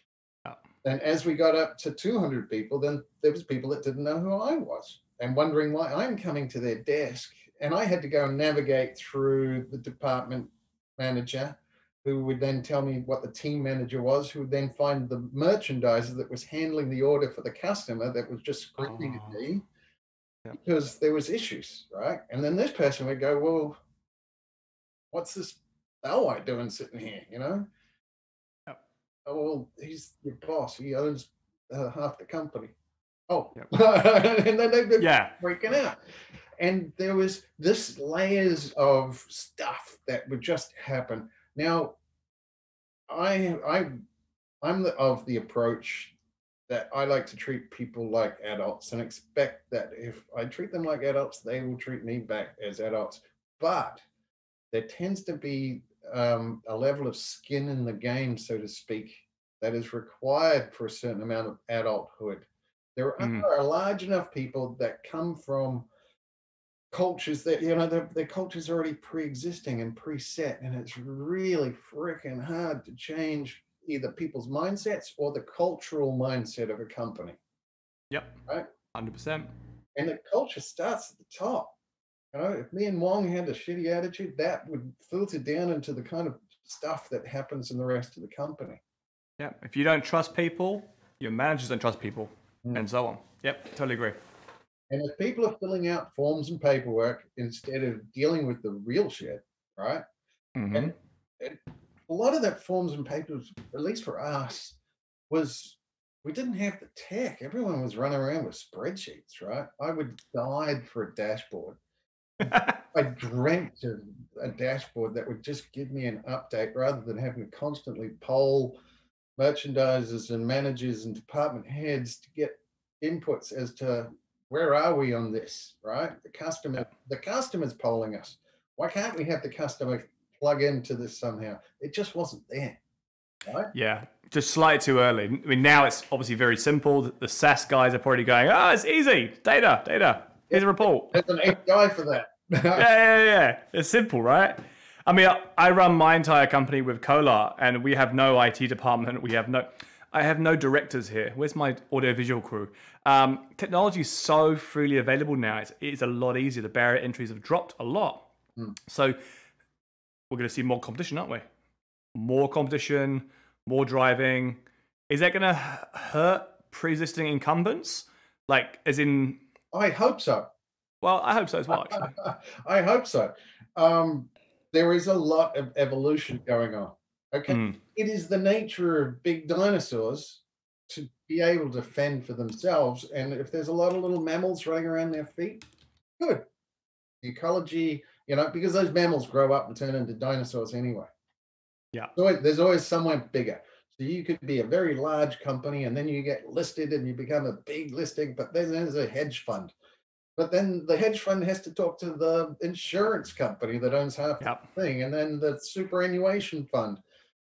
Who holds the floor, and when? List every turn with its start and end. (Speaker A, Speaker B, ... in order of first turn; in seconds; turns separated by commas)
Speaker A: 0.8-19.6, Speaker B: 18.8-19.4, Speaker A: 20.5-23.8, Speaker A: 25.1-27.6, Speaker A: 29.2-32.7, Speaker A: 33.3-36.0, Speaker B: 35.0-35.4, Speaker A: 36.6-41.9, Speaker A: 43.1-43.9, Speaker A: 44.6-46.1, Speaker A: 46.7-54.0, Speaker A: 54.7-65.9, Speaker B: 63.2-63.5, Speaker A: 66.9-77.4, Speaker B: 78.1-78.4, Speaker B: 78.9-79.5, Speaker A: 80.0-81.7, Speaker A: 82.3-88.8, Speaker B: 89.4-94.2, Speaker A: 94.9-100.0, Speaker B: 100.5-100.9, Speaker A: 100.7-104.8, Speaker A: 105.3-111.8, Speaker B: 112.4-112.8, Speaker A: 112.5-118.8, Speaker A: 119.4-132.8, Speaker A: 133.4-133.7, Speaker B: 133.7-141.2, Speaker A: 140.5-142.8, Speaker B: 142.7-158.2, Speaker B: 158.9-159.2, Speaker B: 160.3-161.4, Speaker B: 162.1-169.4, Speaker A: 169.7-170.5, Speaker B: 171.0-172.1, Speaker A: 171.7-185.6, Speaker B: 177.5-177.8, Speaker A: 186.2-186.4, Speaker A: 187.2-191.1, Speaker A: 192.2-199.7, Speaker A: 200.4-207.0